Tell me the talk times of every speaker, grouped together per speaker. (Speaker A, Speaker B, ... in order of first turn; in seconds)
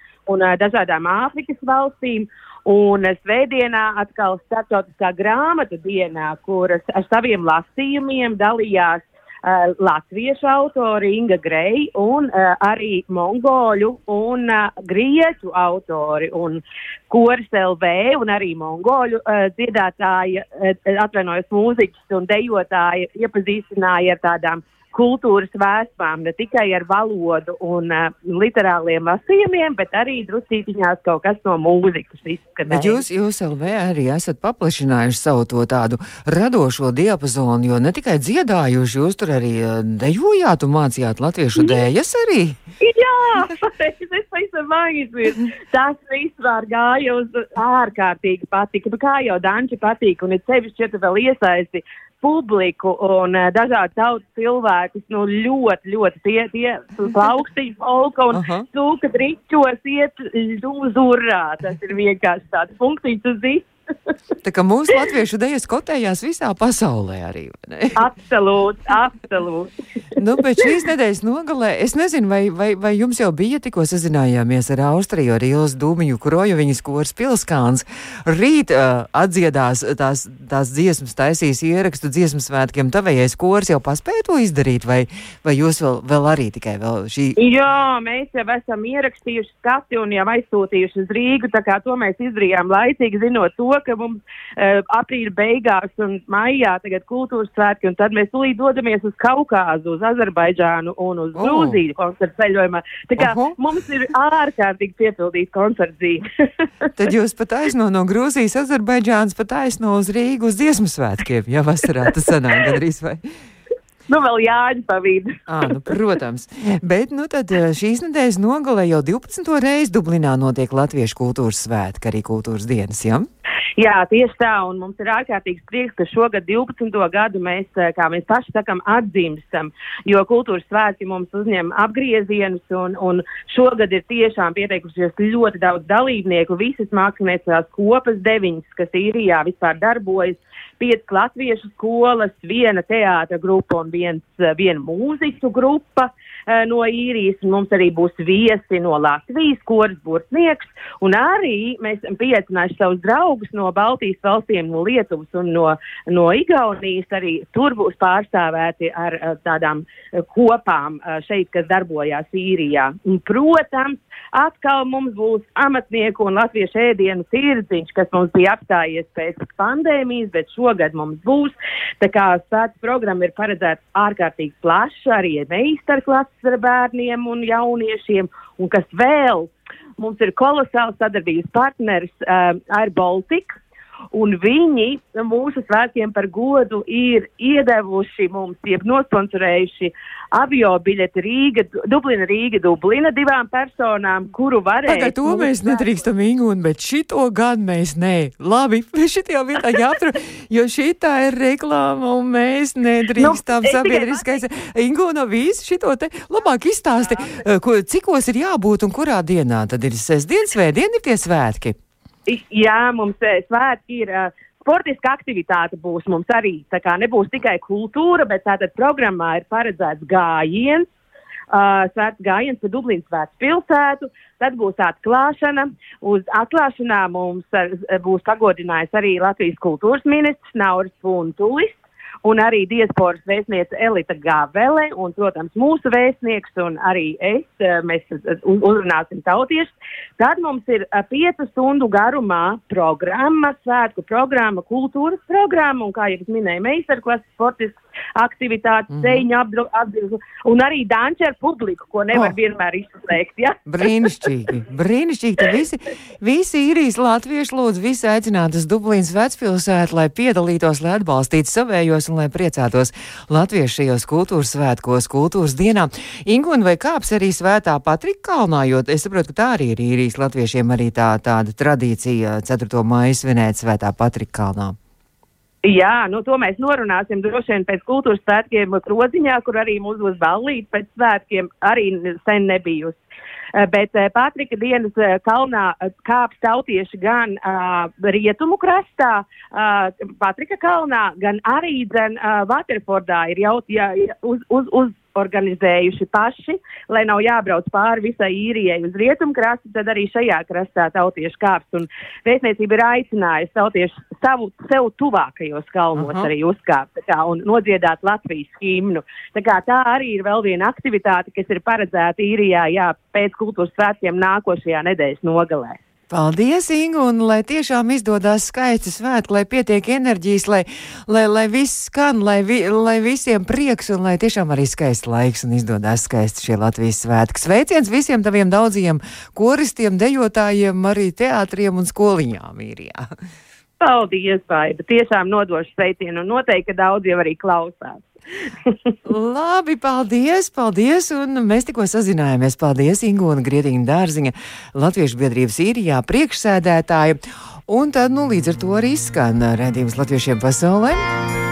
Speaker A: 0.3-33.0, 42.8-63.7, 68.0-69.7, 87.4-106.2, 114.1-115.4, 123.8-183.6, 184.1-196.0, 203.2-204.4, 212.3-220.8, 221.5-253.7, 275.6-283.0, 283.5-315.8, 333.8-338.0
Speaker B: 32.7-42.6, 58.3-58.6, 64.4-68.0, 70.2-87.4, 101.3-101.8, 103.2-103.5, 107.0-113.2, 115.5-123.3, 194.8-211.8, 248.9-249.2, 253.7-274.8, 305.9-306.3, 316.1-333.0, 339.1-351.1